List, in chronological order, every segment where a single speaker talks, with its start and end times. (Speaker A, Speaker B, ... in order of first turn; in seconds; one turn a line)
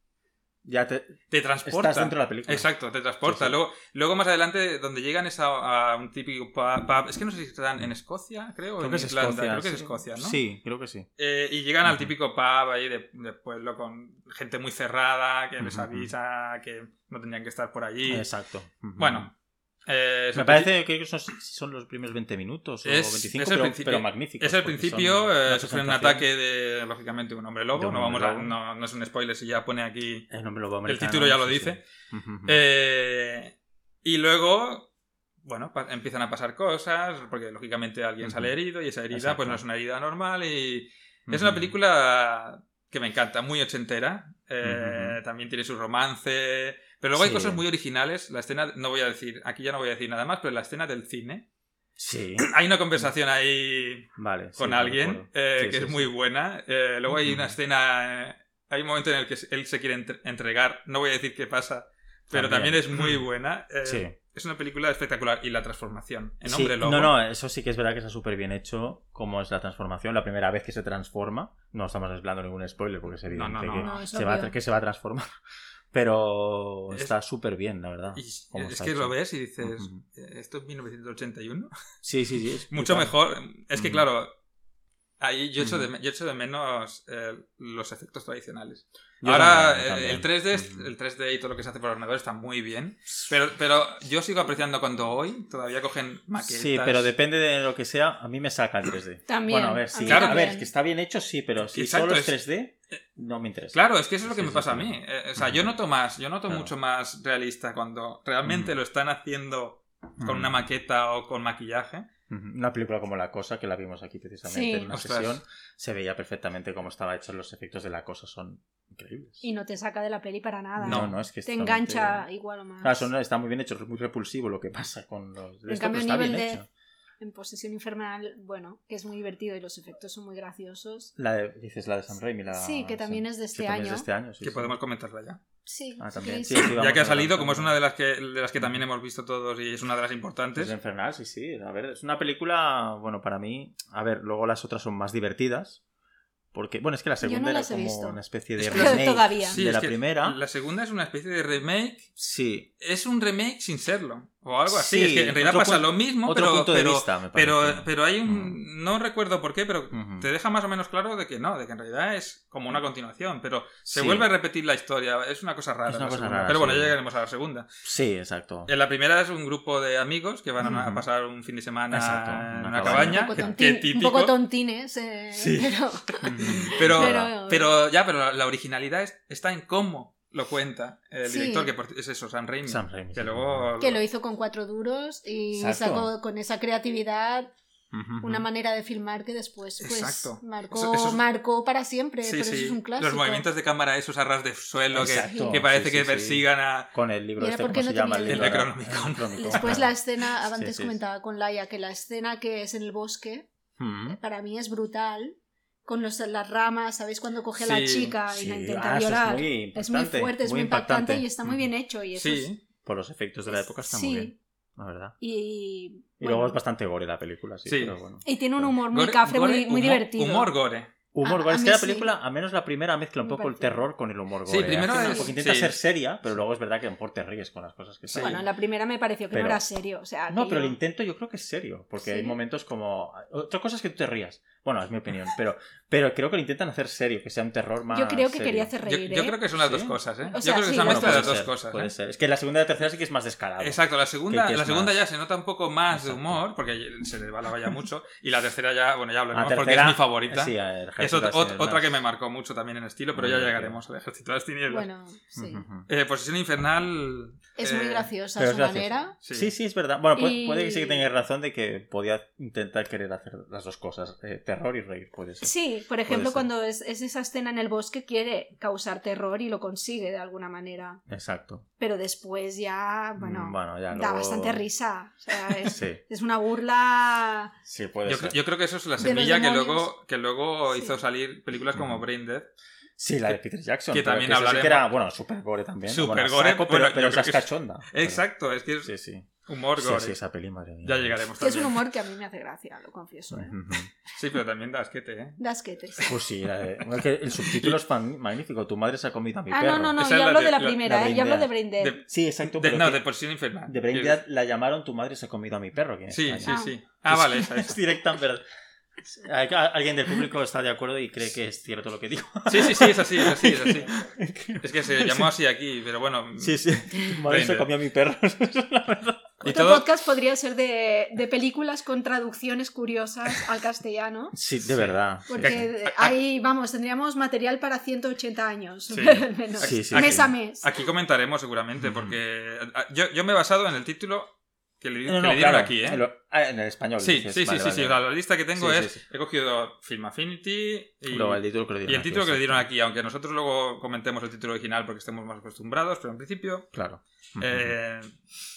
Speaker A: 0.6-2.7
Speaker B: 1.3-10.4
Speaker A: 3.2-3.5
Speaker A: 8.8-11.1
Speaker B: 11.2-18.3
Speaker A: 11.8-12.1
Speaker A: 15.6-16.1
Speaker A: 18.1-19.3
Speaker B: 19.0-19.3
Speaker B: 19.9-20.7
Speaker A: 20.3-26.2
Speaker B: 22.8-30.3
Speaker A: 27.8-28.5
Speaker A: 30.3-32.6
Speaker B: 30.9-31.8
Speaker B: 32.5-34.9
Speaker B: 35.4-51.5
Speaker A: 38.2-38.5
Speaker A: 39.1-39.6
Speaker A: 41.3-41.8
Speaker A: 44.6-45.2
Speaker A: 47.1-47.6
Speaker A: 52.0-53.1
Speaker B: 52.4-67.1
Speaker A: 54.1-56.1
Speaker A: 57.1-57.5
Speaker A: 62.3-63.2
Speaker A: 63.8-64.1
Speaker A: 66.4-75.3
Speaker B: 73.2-74.0
Speaker C: 73.8-74.5
Speaker A: 75.9-80.0
Speaker B: 78.1-81.7
Speaker A: 82.0-83.1
Speaker B: 82.7-84.3
Speaker A: 83.7-84.0
Speaker B: 85.2-97.1
Speaker A: 85.6-85.9
Speaker A: 89.2-90.9
Speaker A: 96.4-105.7
Speaker C: 99.3-100.7
Speaker B: 100.0-100.5
Speaker B: 101.7-102.3
Speaker B: 103.7-112.0
Speaker A: 108.4-108.7
Speaker A: 110.2-110.6
Speaker A: 112.3-119.4
Speaker C: 114.5-114.9
Speaker B: 114.9-115.4
Speaker C: 119.4-123.1
Speaker A: 120.8-122.2
Speaker B: 120.8-121.1
Speaker A: 122.8-126.7
Speaker C: 125.7-126.6
Speaker C: 127.2-131.1
Speaker A: 131.2-134.8
Speaker C: 132.5-134.1
Speaker B: 134.4-135.4
Speaker C: 135.7-136.7
Speaker A: 136.0-137.7
Speaker B: 136.6-140.7
Speaker A: 140.5-145.8
Speaker A: 146.5-150.4
Speaker C: 147.2-149.6
Speaker B: 148.6-152.1
Speaker A: 152.2-152.7
Speaker B: 152.8-167.7
Speaker A: 154.7-158.6
Speaker A: 159.9-160.3
Speaker A: 163.9-164.3
Speaker A: 165.9-167.0
Speaker A: 167.8-168.7
Speaker B: 168.7-174.3
Speaker A: 170.6-171.1
Speaker A: 171.9-173.6
Speaker C: 172.8-177.7
Speaker B: 175.3-184.0
Speaker A: 176.2-177.3
Speaker C: 181.2-181.7
Speaker A: 182.6-183.7
Speaker C: 183.8-187.5
Speaker A: 185.5-186.1
Speaker A: 187.9-188.5
Speaker C: 188.2-193.5
Speaker B: 189.8-191.2
Speaker B: 192.2-196.9
Speaker A: 194.9-200.9
Speaker C: 195.1-195.6
Speaker C: 197.4-198.7
Speaker B: 198.3-199.8
Speaker C: 199.4-203.5
Speaker A: 203.8-204.2
Speaker C: 204.1-212.5
Speaker B: 207.6-208.1
Speaker A: 208.3-211.7
Speaker B: 212.2-212.6
Speaker A: 212.8-215.2
Speaker C: 213.5-214.3
Speaker C: 215.2-216.5
Speaker A: 216.2-218.8
Speaker B: 217.7-217.9
Speaker C: 218.2-220.5
Speaker B: 218.9-220.9
Speaker A: 221.1-228.5
Speaker C: 221.2-222.1
Speaker C: 223.2-223.8
Speaker B: 224.4-225.8
Speaker C: 224.9-225.3
Speaker B: 228.1-228.4
Speaker C: 228.2-230.8
Speaker A: 229.3-229.6
Speaker A: 230.3-238.7
Speaker C: 232.0-232.4
Speaker C: 237.9-239.4
Speaker B: 238.8-241.9
Speaker A: 239.6-239.9
Speaker C: 240.3-241.4
Speaker A: 240.8-245.0
Speaker B: 243.6-254.9
Speaker A: 245.9-246.4
Speaker A: 249.3-252.0
Speaker A: 253.1-253.8
Speaker C: 254.7-255.6
Speaker A: 255.3-255.9
Speaker B: 255.9-258.1
Speaker C: 257.6-259.1
Speaker A: 258.4-265.5
Speaker B: 259.2-259.5
Speaker C: 260.1-261.1
Speaker C: 265.4-271.0
Speaker A: 266.1-266.5
Speaker A: 271.1-271.6
Speaker C: 271.8-277.5
Speaker A: 273.2-274.6
Speaker A: 275.6-276.0
Speaker A: 277.6-278.4
Speaker B: 278.1-282.5
Speaker C: 279.0-279.9
Speaker C: 280.7-281.0
Speaker A: 281.7-282.0
Speaker A: 283.0-288.2
Speaker B: 283.9-284.9
Speaker B: 285.9-288.9
Speaker A: 288.8-291.4
Speaker B: 289.4-290.2
Speaker B: 290.8-291.8
Speaker C: 291.4-293.6
Speaker A: 293.3-293.9
Speaker B: 294.1-295.4
Speaker C: 295.4-296.1
Speaker A: 296.1-300.0
Speaker B: 297.4-297.8
Speaker C: 299.5-302.0
Speaker B: 300.0-300.8
Speaker A: 300.8-303.0
Speaker B: 301.8-304.2
Speaker A: 303.6-308.4
Speaker B: 306.1-307.8
Speaker C: 306.4-306.8
Speaker A: 309.0-315.3
Speaker B: 312.5-313.9
Speaker B: 314.6-317.7
Speaker A: 316.4-319.4
Speaker B: 319.4-319.9
Speaker C: 319.4-324.4
Speaker A: 324.3-325.7
Speaker B: 324.7-326.1
Speaker C: 325.3-330.8
Speaker B: 328.9-336.0
Speaker A: 329.6-330.3
Speaker A: 331.8-332.2
Speaker A: 335.1-338.0
Speaker B: 337.0-346.7
Speaker A: 338.6-339.0
Speaker A: 341.1-342.7
Speaker A: 346.7-347.7
Speaker B: 347.4-348.2